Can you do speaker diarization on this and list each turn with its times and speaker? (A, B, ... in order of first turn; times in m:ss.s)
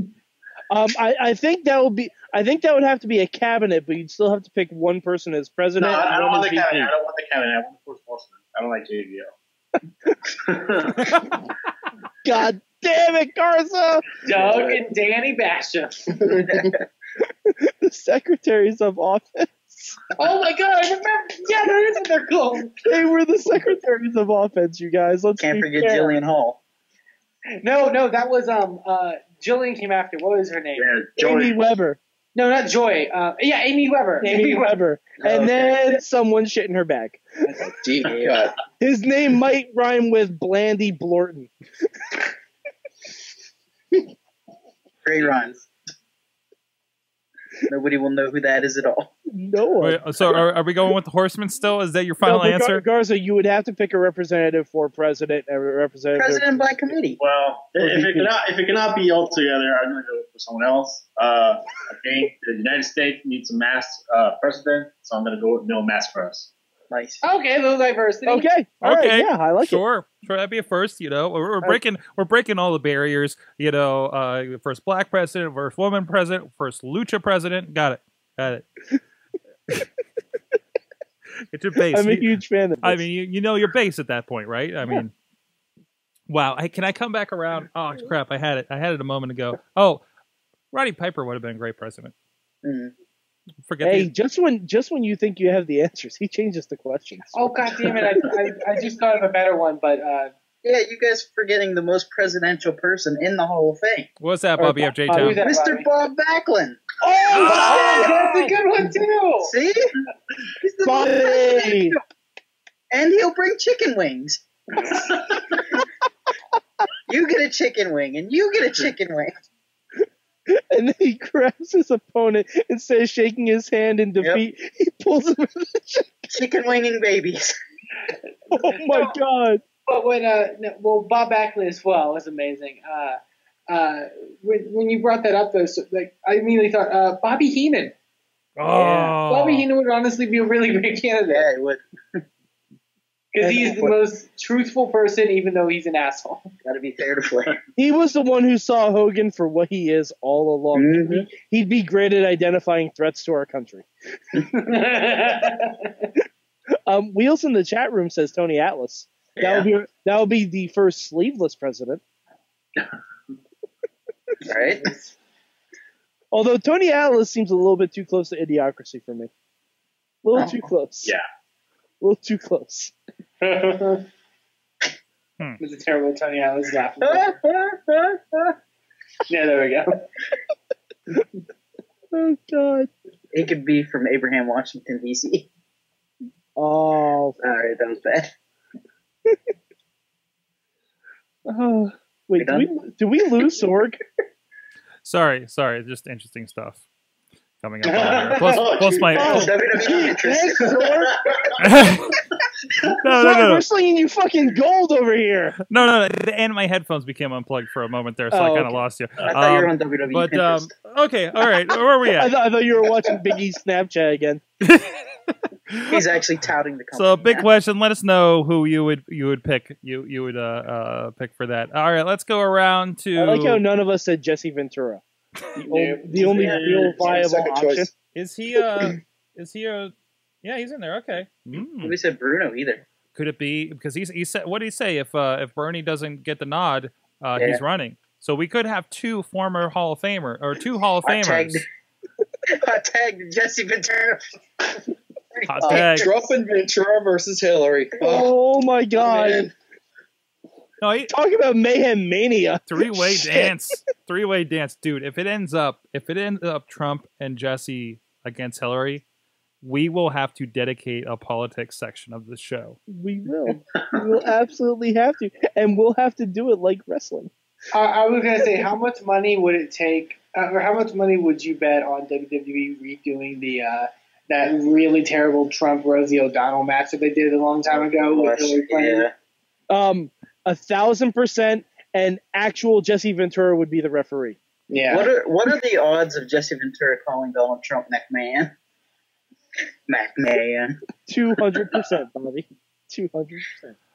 0:00.7-0:06.9 A
0:05.8-0:09.3 B
0:10.5-0:11.2 B
0:12.2-0:14.1 A
0:14.2-0:16.2 C
0:17.5-0:20.0 A
0:20.2-0:22.8 C
0:22.9-0:26.2 A
0:25.4-0:26.6 D
0:27.6-0:30.9 C
0:30.8-0:31.6 B
0:31.2-0:32.0 A
0:32.4-0:34.8 C
0:34.2-0:37.6 A
0:35.2-0:36.0 D
0:37.6-0:38.5 E
0:38.8-0:41.5 A
0:45.0-0:45.6 D
0:47.7-0:49.1 D
0:49.3-0:50.0 A
0:49.8-0:52.8 F
0:52.2-0:57.0 A
0:56.2-0:57.2 D
0:57.2-1:06.5 B
0:57.8-0:58.3 A
1:06.9-1:07.2 D
1:07.2-1:08.5 C
1:08.3-1:09.8 A
1:08.8-1:18.6 F
1:21.5-1:25.1 F
1:21.9-1:23.1 A
1:26.3-1:30.0 F
1:30.7-1:32.1 F
1:32.6-1:32.9 D
1:33.6-1:34.1 F
1:33.8-1:37.7 A
1:37.3-1:40.3 C
1:40.6-1:44.1 D
1:44.2-1:45.4 F
1:44.6-1:45.4 A
1:45.1-1:45.9 C
1:45.4-1:46.8 D
1:47.0-1:48.2 A
1:47.3-1:48.4 F
1:47.4-1:49.5 C
1:47.5-1:47.8 D
1:49.4-1:49.9 D
1:50.6-1:52.0 D
1:50.8-1:52.0 A
1:52.9-1:54.4 D
1:55.1-1:55.6 B
1:57.1-1:59.3 D
2:00.5-2:06.3 A
2:06.3-2:07.6 D
2:08.5-2:09.6 A
2:08.5-2:09.1 C
2:09.9-2:13.2 C
2:13.7-2:17.9 C
2:18.6-2:19.7 F
2:18.7-2:21.5 C
2:21.3-2:22.2 D
2:23.3-2:26.5 C
2:26.6-2:27.6 D
2:27.8-2:33.9 A
2:30.7-2:31.3 D
2:34.4-2:36.1 C
2:36.9-2:42.0 A
2:44.4-2:44.8 D
2:46.3-2:49.3 A
2:50.2-2:51.1 A
2:52.0-2:52.9 A
2:53.4-2:54.0 C
2:55.6-2:57.4 C
2:57.0-2:58.6 D
2:59.3-3:00.0 C
3:02.1-3:02.9 A
3:03.3-3:05.5 D
3:06.6-3:07.4 A
3:07.4-3:08.3 D
3:11.5-3:14.0 A
3:12.4-3:12.7 D
3:15.0-3:16.8 F
3:17.6-3:19.5 F
3:18.0-3:19.5 B
3:18.3-3:18.6 C
3:19.1-3:21.2 A
3:19.3-3:20.7 D
3:20.9-3:21.4 B
3:21.6-3:22.2 F
3:23.0-3:23.6 F
3:23.1-3:25.6 A
3:25.7-3:32.3 F
3:28.3-3:28.8 A
3:29.2-3:30.7 D
3:32.2-3:34.4 A
3:34.6-3:36.1 F
3:35.9-3:37.5 D
3:36.9-3:43.6 F
3:43.2-3:45.0 A
3:45.6-3:47.9 A
3:45.7-3:47.1 B
3:46.2-3:47.9 E
3:46.3-3:47.8 D
3:48.2-3:52.0 F
3:51.8-3:52.8 D
3:53.1-4:01.6 F
4:01.0-4:01.6 D
4:02.5-4:04.3 D
4:05.3-4:06.3 D
4:05.5-4:06.1 F
4:05.7-4:08.3 E
4:08.0-4:09.5 A
4:10.8-4:11.1 F
4:11.1-4:13.6 A
4:12.7-4:19.0 F
4:19.6-4:22.8 F
4:22.9-4:27.3 A
4:27.7-4:39.1 C
4:38.1-4:39.1 D
4:39.7-4:44.4 A
4:44.7-4:45.1 C
4:44.9-4:48.5 D
4:49.9-4:50.8 D
4:51.1-4:53.8 A